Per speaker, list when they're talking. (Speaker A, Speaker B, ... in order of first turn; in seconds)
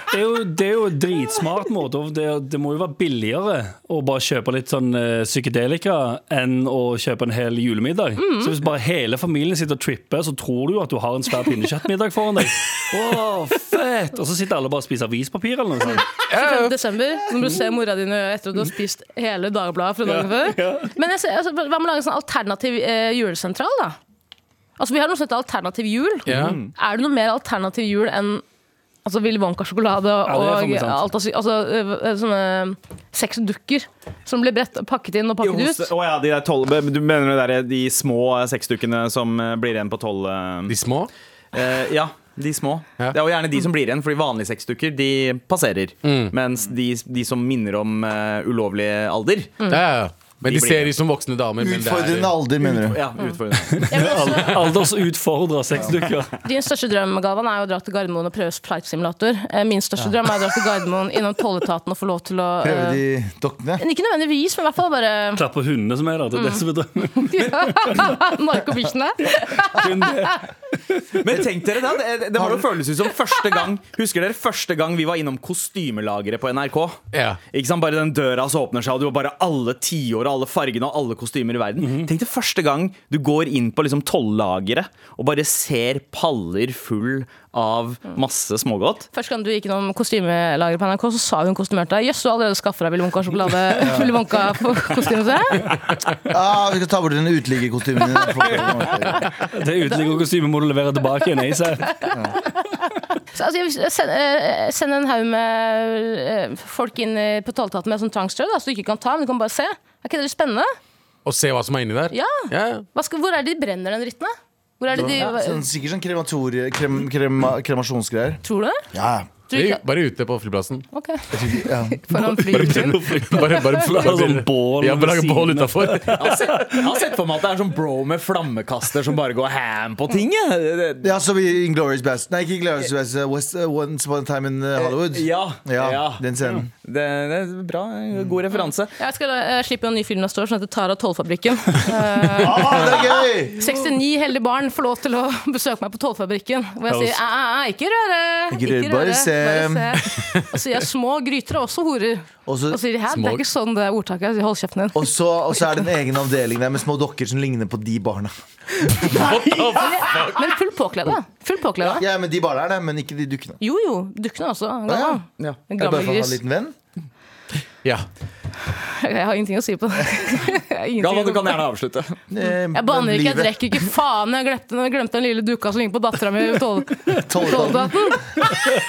Speaker A: 0.1-16.2, 20.0-20.9, 30.2-31.1, 53.7-56.3, 65.4-68.1, 69.7-71.2, 81.8-82.1, 99.5-102.2, 122.5-127.0, 146.9-147.2
Speaker B: 8.2-8.5, 16.2-24.0, 24.8-28.4, 29.1-35.9, 53.9-54.7, 56.4-63.0, 63.8-65.4, 66.3-66.6, 67.2-70.4, 89.1-95.8, 102.0-102.8, 103.3-110.7, 112.1-115.7, 118.4-118.8, 119.5-119.8, 120.9-123.6, 138.5-155.1, 159.7-162.1, 163.6-166.4, 168.7-171.6, 172.7-178.5
Speaker C: 16.3-16.8, 26.3-26.6, 40.7-41.1, 46.0-46.3, 49.7-52.4, 77.1-77.4, 111.2-112.8, 119.5-121.6, 122.4-126.3, 153.1-153.4, 159.0-160.5
Speaker D: 26.3-26.7, 35.4-40.8, 41.5-49.6, 50.4-51.0, 52.6-54.0, 71.2-89.1, 126.1-131.1, 134.8-138.9, 171.0-172.2
Speaker E: 51.6-53.0, 62.6-63.8, 72.4-72.6, 93.8-94.2, 96.3-99.3, 114.9-118.4, 118.9-119.3, 121.4-122.0, 131.0-136.7, 142.4-143.6, 148.5-150.0, 152.5-152.8, 154.9-158.3, 161.8-163.6, 164.9-165.2, 165.8-166.7, 172.3-173.6, 177.1-178.2